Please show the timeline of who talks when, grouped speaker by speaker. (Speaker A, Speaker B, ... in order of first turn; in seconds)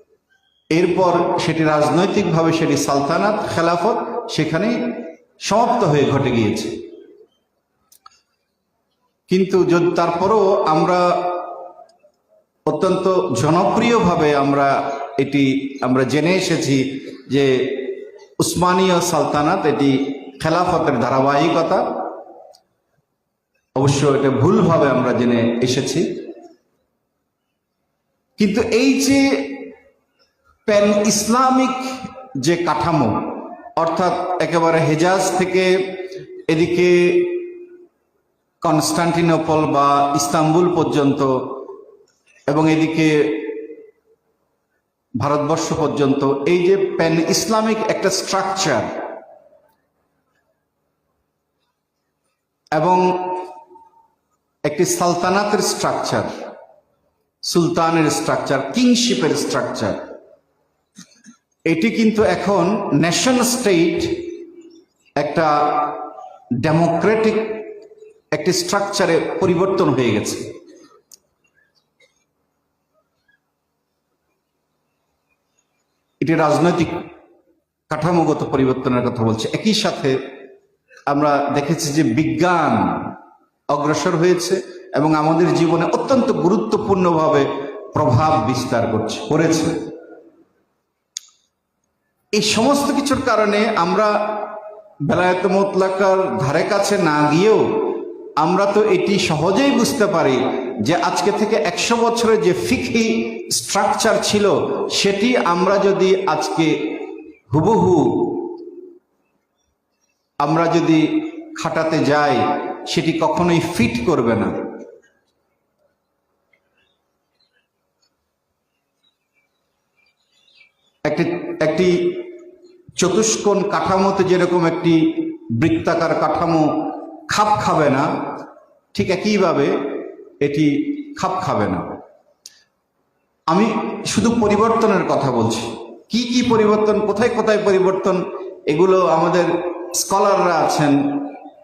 Speaker A: 0.7-4.8, 5.4-6.7, 9.3-11.3, 12.7-21.9, 23.8-26.1, 28.4-29.7, 30.7-35.7, 36.5-37.5, 38.6-41.5, 42.5-43.6, 45.2-48.9, 52.8-53.4, 54.7-56.3, 57.4-60.0, 61.7-64.3, 65.2-66.0, 66.6-67.6, 68.3-70.5, 76.2-77.0, 77.9-80.2, 81.1-83.1, 83.7-89.8, 92.3-94.2, 95.1-97.7, 98.4-108.5, 110.4-114.6, 121.0-122.3, 123.0-126.7, 127.3-128.1, 128.9-129.8, 130.4-132.0, 133.5-141.3